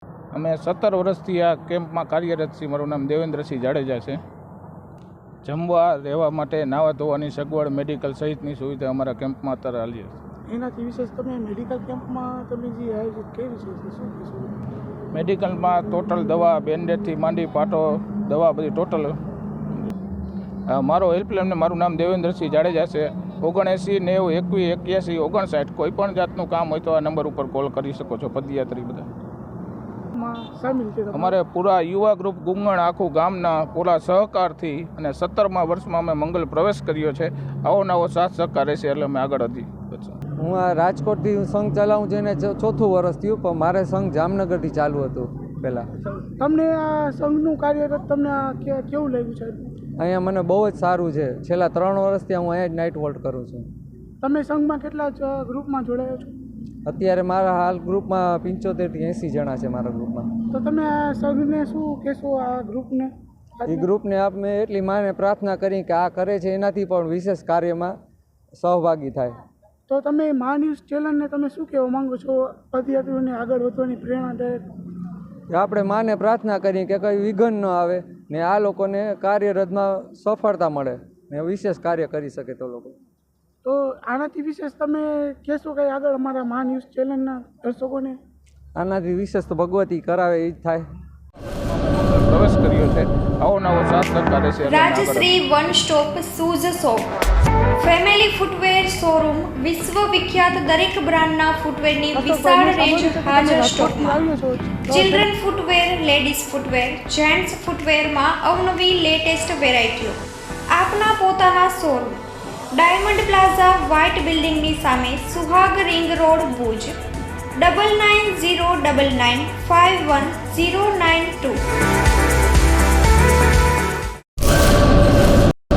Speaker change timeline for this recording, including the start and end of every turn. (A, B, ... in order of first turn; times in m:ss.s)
0:00.3-0:04.2 A
0:05.4-0:10.2 A
0:10.5-0:14.6 B
0:15.1-0:19.2 A
0:20.7-0:29.1 A
0:30.1-0:31.4 B
0:31.1-0:40.2 A
0:40.4-0:45.9 C
0:46.2-0:49.7 B
0:50.0-0:53.7 C
0:54.2-0:56.3 B
0:56.8-1:00.3 C
1:00.5-1:03.9 B
1:03.7-1:08.0 C
1:08.5-1:09.4 C
1:09.9-1:14.6 B
1:15.5-1:23.0 C
1:23.6-1:28.2 B
1:28.8-1:30.9 C
1:31.6-1:35.3 A
1:34.6-1:37.1 D
1:37.8-1:44.2 D
1:42.1-1:45.4 B
1:44.9-1:50.2 D
1:50.7-1:57.0 D
1:57.6-2:01.6 D